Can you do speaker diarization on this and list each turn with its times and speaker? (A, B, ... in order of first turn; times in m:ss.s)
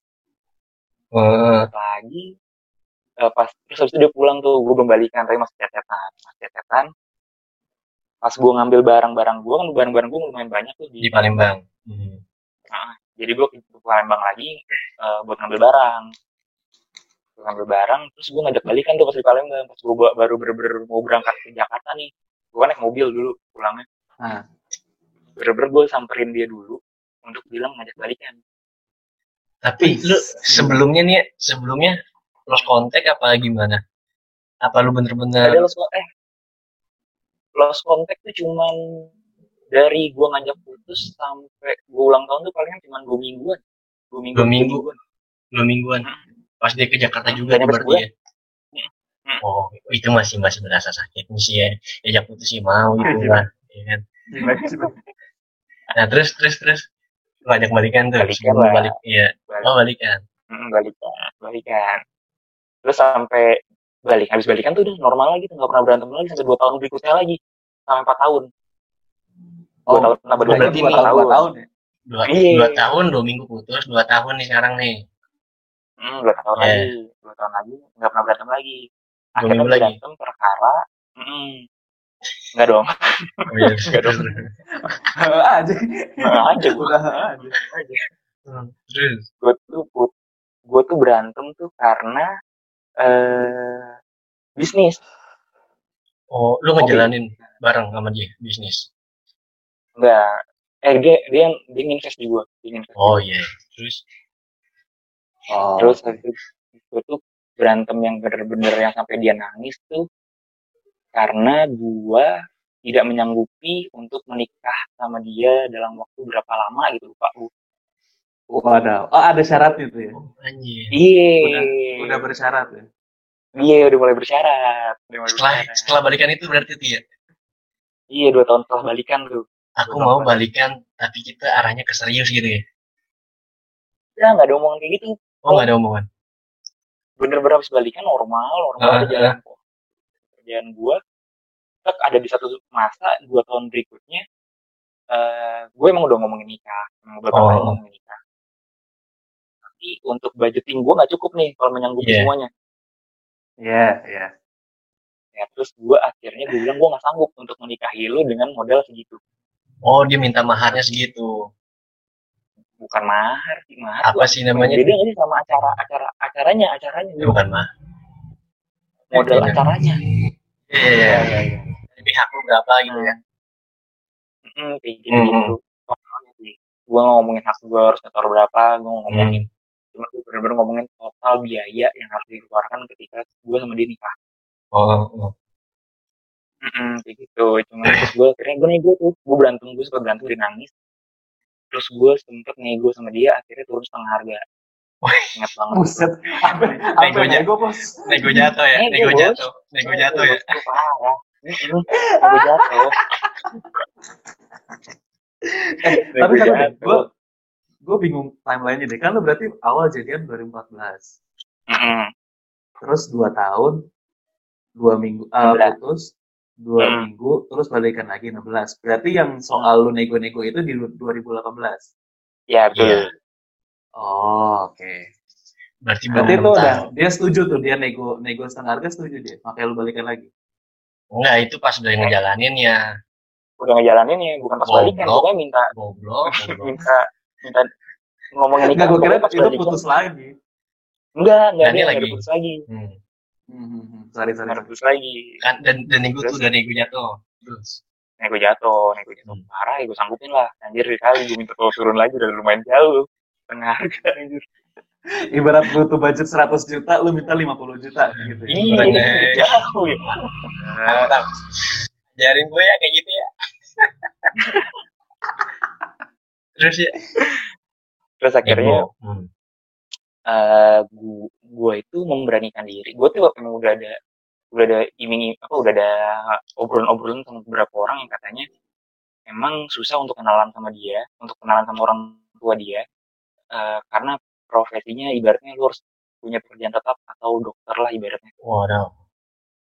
0:01.1-0:01.7 A
0:01.6-0:02.3 B
0:03.2-0:06.9 B
0:08.2-0:11.4 B
0:11.0-0:12.2 A
0:12.7-0:16.0 B
0:17.4-0:23.8 B
0:25.4-0:28.4 B
0:29.6-0:32.0 A
0:29.8-0:30.8 C
0:32.5-0:33.8 A
0:34.6-0:35.6 A
0:35.4-0:36.0 B
0:37.6-0:38.7 B
0:39.7-0:43.6 B
0:44.1-0:45.0 B
0:44.4-0:44.8 A
0:45.5-0:46.1 A
0:46.6-0:48.1 A
0:47.3-0:48.0 B
0:48.7-0:49.4 B
0:49.4-0:54.0 A
0:53.0-0:53.4 C
0:54.3-0:54.9 C
0:54.4-0:54.9 B
0:56.0-0:56.8 A
0:57.5-1:00.2 A
0:58.2-0:58.9 B
1:00.5-1:02.0 B
1:02.8-1:03.5 B
1:04.1-1:08.5 B
1:09.9-1:11.7 C
1:09.9-1:11.4 B
1:10.5-1:11.1 A
1:12.1-1:15.0 A
1:12.3-1:12.8 B
1:16.0-1:18.8 B
1:16.6-1:16.9 A
1:19.4-1:20.0 A
1:19.4-1:21.6 B
1:22.6-1:22.9 B
1:23.5-1:24.4 A
1:23.8-1:24.2 B
1:25.1-1:27.5 C
1:26.2-1:26.9 B
1:27.5-1:28.0 B
1:28.5-1:29.2 A
1:29.4-1:30.1 B
1:30.7-1:32.3 B
1:33.0-1:33.9 B
1:34.6-1:35.0 B
1:36.3-1:38.9 A
1:40.0-1:40.3 B
1:40.8-1:43.2 B
1:43.0-1:44.0 A
1:45.5-1:46.0 C
1:45.8-1:50.0 B
1:51.2-1:52.3 B
1:52.9-1:57.5 B
1:58.5-2:00.2 C
2:00.1-2:00.9 A
2:01.0-2:02.2 B
2:01.4-2:02.9 C
2:03.6-2:06.0 B
2:05.3-2:07.0 A
2:08.1-2:10.4 B
2:09.8-2:12.6 A
2:14.2-2:15.7 B
2:15.4-2:16.1 A
2:17.2-2:19.6 B
2:18.8-2:19.4 A
2:20.4-2:21.0 B
2:21.8-2:24.2 B
2:25.1-2:28.2 B
2:27.3-2:27.8 A
2:29.8-2:32.5 B
2:32.0-2:32.3 A
2:33.6-2:34.3 C
2:35.4-2:39.2 B
2:39.8-2:41.3 A
2:42.8-2:47.4 B
2:44.0-2:44.9 A
2:47.2-2:47.7 A
2:49.1-2:50.0 B
2:49.2-2:49.6 A
2:50.7-2:53.1 A
2:52.9-2:53.2 B
2:54.5-2:59.4 B
2:55.1-2:55.5 A
2:59.1-2:59.4 A
3:00.0-3:04.1 B
3:04.7-3:05.3 A
3:06.6-3:10.7 B
3:11.7-3:14.4 B
3:15.0-3:15.3 A
3:15.3-3:16.1 B
3:15.7-3:18.5 C
3:17.0-3:17.5 A
3:18.1-3:20.4 A
3:18.8-3:23.0 B
3:21.9-3:22.8 C
3:25.5-3:27.0 C
3:25.9-3:27.0 B
3:27.8-3:31.1 C
3:31.7-3:32.1 B
3:32.8-3:33.8 C
3:34.8-3:36.1 C
3:35.4-3:35.7 B
3:36.6-3:41.9 C
3:36.8-3:37.1 B
3:42.5-3:43.1 B
3:42.8-3:43.0 A
3:44.0-3:45.0 C
3:45.8-3:46.9 A
3:46.2-3:50.3 C
3:51.1-3:52.8 A
3:53.6-3:55.7 B
3:54.7-3:56.8 A
3:56.3-3:57.7 B
3:58.4-3:59.8 B
3:58.6-4:00.3 C
4:01.2-4:02.6 B
4:01.6-4:03.0 A
4:03.5-4:04.7 C
4:04.5-4:05.2 B
4:05.4-4:07.8 A
4:08.2-4:14.4 B
4:15.3-4:19.0 C
4:18.2-4:19.5 A
4:18.5-4:20.1 B
4:20.8-4:23.3 A
4:26.6-4:26.9 A
4:28.2-4:28.8 B
4:28.4-4:29.3 A
4:30.3-4:34.0 B
4:34.5-4:35.9 B
4:36.6-4:38.4 B
4:39.3-4:42.8 B
4:43.5-4:48.3 B
4:48.4-4:48.9 A